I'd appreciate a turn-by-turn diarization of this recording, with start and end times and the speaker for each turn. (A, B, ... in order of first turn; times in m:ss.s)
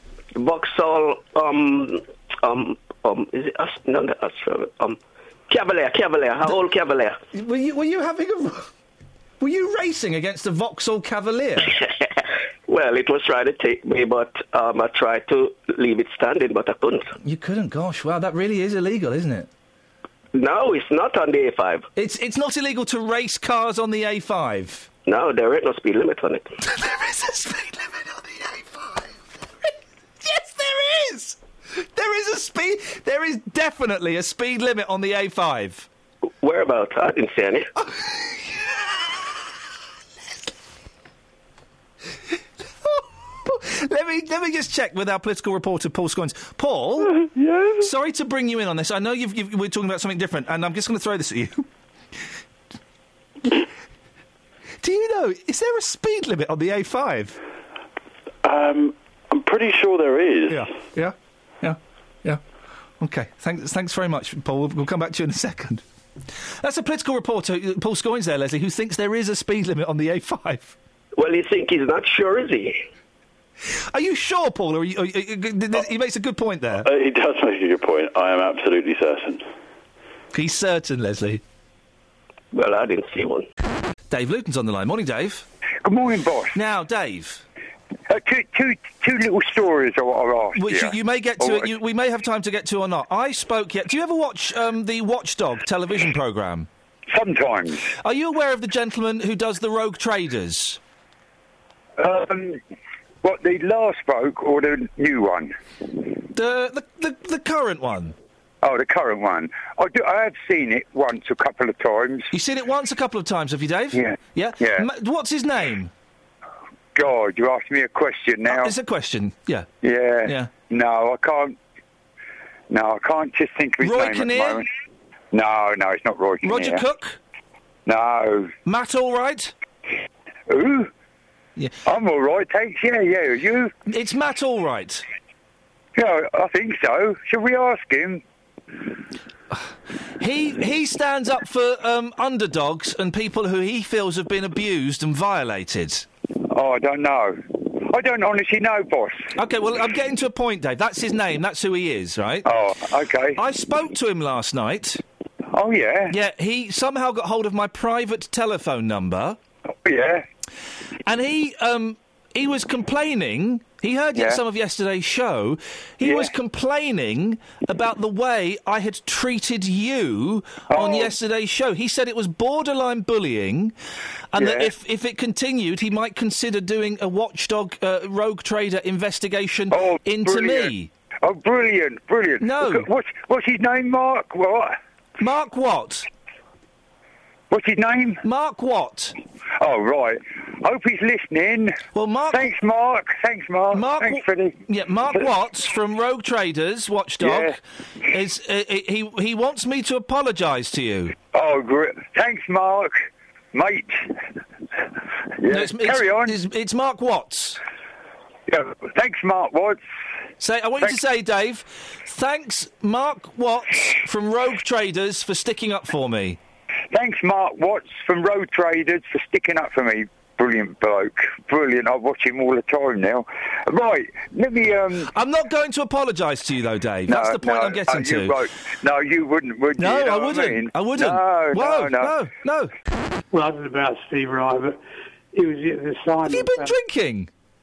0:00.4-0:05.0 A
0:05.5-0:07.2 A
0:07.3-0:08.7 B
0:09.4-0:11.8 B
0:12.7-0:17.1 A
0:17.2-0:19.5 B
0:20.3-0:21.9 A
0:22.0-0:24.9 B
0:25.1-0:26.5 A
0:26.6-0:29.1 B
0:30.2-0:35.9 B
0:36.4-0:37.7 A
0:37.8-0:38.7 B
0:42.9-0:47.2 B
0:47.4-0:47.7 C
0:47.8-0:51.7 B
0:54.8-0:57.4 B
0:58.4-1:00.7 C
1:00.5-1:02.4 B
1:03.0-1:05.8 B
1:06.6-1:10.8 B
1:11.2-1:12.8 A
1:13.9-1:16.9 B
1:16.8-1:19.4 C
1:20.3-1:21.4 B
1:22.5-1:23.4 A
1:24.1-1:25.4 B
1:25.8-1:26.6 D
1:26.5-1:27.4 B
1:28.1-1:31.7 D
1:30.6-1:36.7 B
1:37.1-1:37.9 D
1:38.0-1:40.8 B
1:42.0-1:42.6 D
1:43.2-1:45.5 D
1:46.3-1:48.2 B
1:48.6-1:52.3 D
1:52.3-1:55.9 B
1:53.9-1:54.9 D
1:56.9-1:58.7 D
1:58.5-1:59.7 B
1:59.8-2:01.6 D
2:00.2-2:00.5 B
2:02.7-2:04.7 D
2:03.8-2:04.6 B
2:05.3-2:06.8 D
2:06.4-2:07.2 B
2:07.9-2:08.5 D
2:08.7-2:09.5 B
2:10.5-2:10.9 D
2:11.8-2:13.7 D
2:13.9-2:15.0 B
2:16.0-2:18.2 D
2:20.2-2:26.1 B
2:26.5-2:29.3 D
2:29.4-2:32.4 B
2:32.4-2:33.4 D
2:33.4-2:35.0 B
2:35.5-2:36.1 D
2:36.1-2:39.4 B
2:39.8-2:40.2 D
2:41.1-2:53.8 B
2:46.0-2:46.3 D
2:50.7-2:51.1 D
2:54.3-3:00.9 B
2:54.4-2:54.7 D
2:59.7-3:04.8 D
3:02.4-3:02.9 B
3:05.2-3:06.1 B
3:07.5-3:08.2 D
3:08.2-3:09.1 B
3:09.6-3:11.8 D
3:11.9-3:12.4 B
3:12.3-3:14.6 D
3:13.7-3:21.1 B
3:17.2-3:17.5 D
3:21.3-3:24.1 D
3:25.4-3:26.4 D
3:25.5-3:27.6 B
3:28.5-3:29.8 D
3:30.4-3:36.4 B
3:36.9-3:45.1 D
3:45.1-3:48.4 B
3:47.1-3:52.1 D
3:49.8-3:52.7 B
3:53.3-3:54.8 E
3:55.3-3:56.7 E
3:56.2-3:57.3 B